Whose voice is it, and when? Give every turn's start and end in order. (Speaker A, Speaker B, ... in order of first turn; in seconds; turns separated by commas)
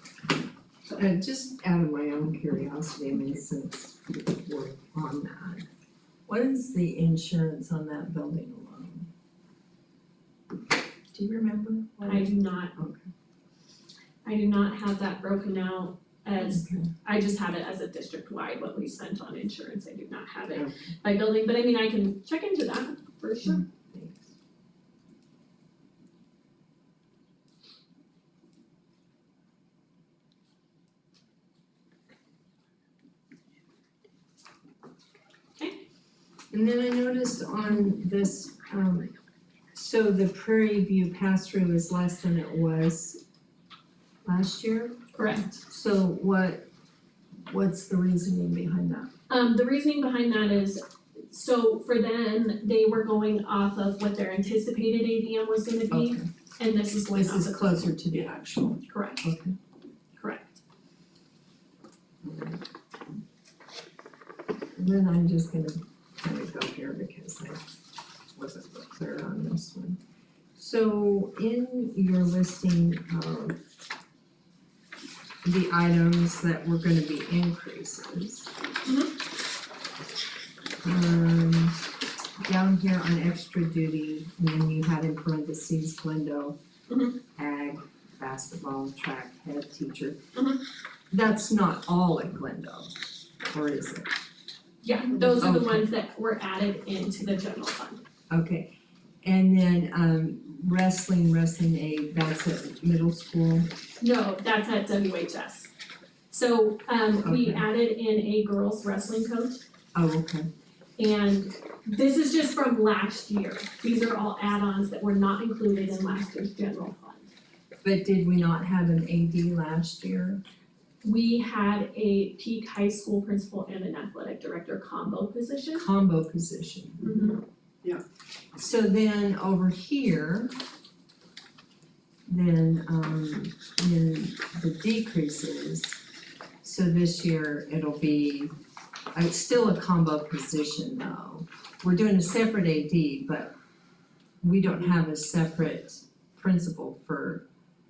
Speaker A: 0.9-5.7, Speaker A: 6.3-9.1, Speaker A: 11.1-13.1, Speaker B: 12.0-12.7, Speaker B: 14.2-23.6, Speaker A: 16.4-16.9, Speaker A: 20.5-20.8, Speaker A: 23.5-24.3, Speaker A: 36.5-39.1, Speaker A: 39.7-43.2, Speaker A: 44.2-45.0, Speaker B: 45.1-45.6, Speaker A: 45.7-46.7, Speaker A: 47.5-49.1, Speaker B: 49.3-58.2, Speaker A: 55.9-56.2, Speaker A: 57.1-59.5, Speaker B: 58.9-59.2, Speaker B: 60.2-60.6, Speaker A: 62.2-62.6, Speaker A: 64.8-67.6, Speaker A: 68.3-70.0, Speaker A: 70.5-73.6, Speaker A: 75.4-78.5, Speaker B: 78.8-79.1, Speaker A: 80.8-81.8, Speaker A: 82.4-86.6, Speaker B: 86.9-87.2, Speaker A: 87.3-90.2, Speaker B: 90.3-90.6, Speaker A: 91.1-94.1, Speaker B: 94.8-98.0, Speaker A: 95.3-95.8, Speaker A: 98.3-98.7, Speaker A: 99.2-103.7, Speaker B: 104.0-105.7, Speaker B: 106.3-109.6, Speaker A: 107.2-107.7, Speaker A: 109.9-110.5, Speaker B: 111.0-117.3, Speaker A: 117.8-120.4, Speaker B: 121.0-125.8, Speaker A: 125.7-127.1, Speaker B: 127.0-127.4, Speaker A: 128.5-130.5, Speaker A: 132.3-136.0, Speaker A: 136.6-138.5, Speaker A: 139.1-143.5, Speaker A: 144.4-147.4